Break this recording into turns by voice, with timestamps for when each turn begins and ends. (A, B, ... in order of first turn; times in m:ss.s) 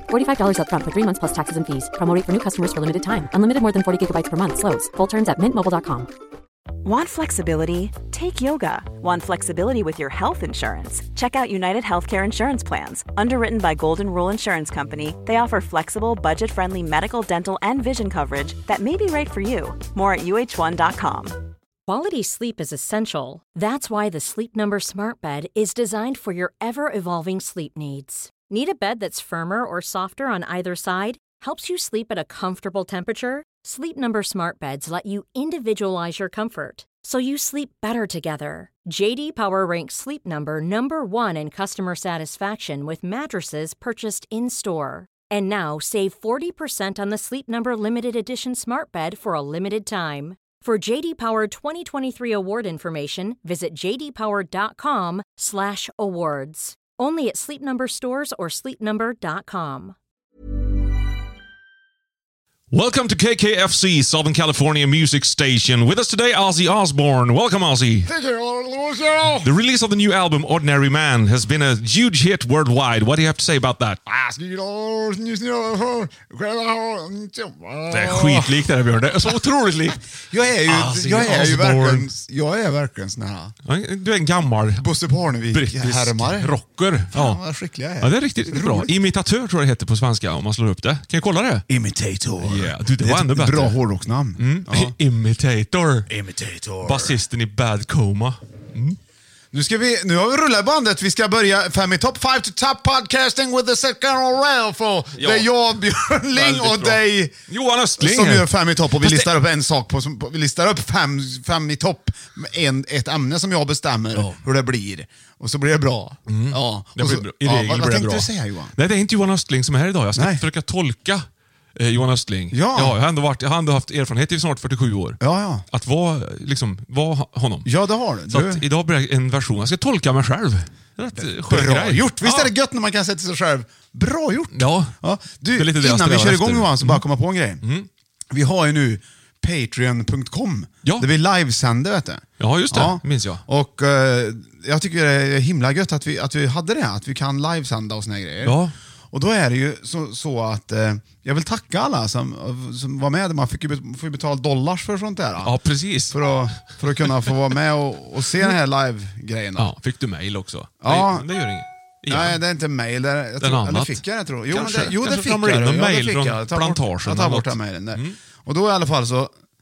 0:00.1-0:06.1 A
0:06.8-0:21.4 B
0:21.8-1:00.0 C
1:02.7-1:08.1 D
1:08.0-1:09.5 E
1:09.4-1:14.0 D
1:14.0-1:18.6 E
1:17.9-1:20.0 D
1:20.3-1:23.6 E
1:20.6-1:22.1 D
1:23.7-1:24.9 D
1:24.8-1:26.5 E
1:25.5-1:27.4 D
1:27.1-1:28.9 E
1:28.0-1:31.6 D
1:31.7-1:34.9 E
1:32.4-1:33.8 D
1:34.4-1:36.1 D
1:36.1-1:37.2 E
1:36.8-1:39.0 D
1:39.5-1:47.3 E
1:45.2-1:45.5 D
1:46.3-1:49.3 D
1:48.0-1:58.7 E
1:56.3-2:01.2 D
2:00.2-2:00.4 E
2:01.8-2:05.2 D
2:02.5-2:03.0 E
2:05.2-2:05.6 E
2:05.7-2:07.7 D
2:07.6-2:08.6 E
2:08.3-2:12.5 D
2:11.2-2:17.6 E
2:14.5-2:14.9 D
2:15.5-2:17.0 D
2:17.6-2:17.9 D
2:18.3-2:28.6 E
2:22.4-2:23.4 D
2:28.4-2:28.7 D
2:29.1-2:35.6 E
2:35.4-2:36.2 D
2:36.1-2:39.7 E
2:39.6-2:42.4 D
2:40.8-2:41.2 E
2:42.1-2:49.3 E
2:43.4-2:48.2 D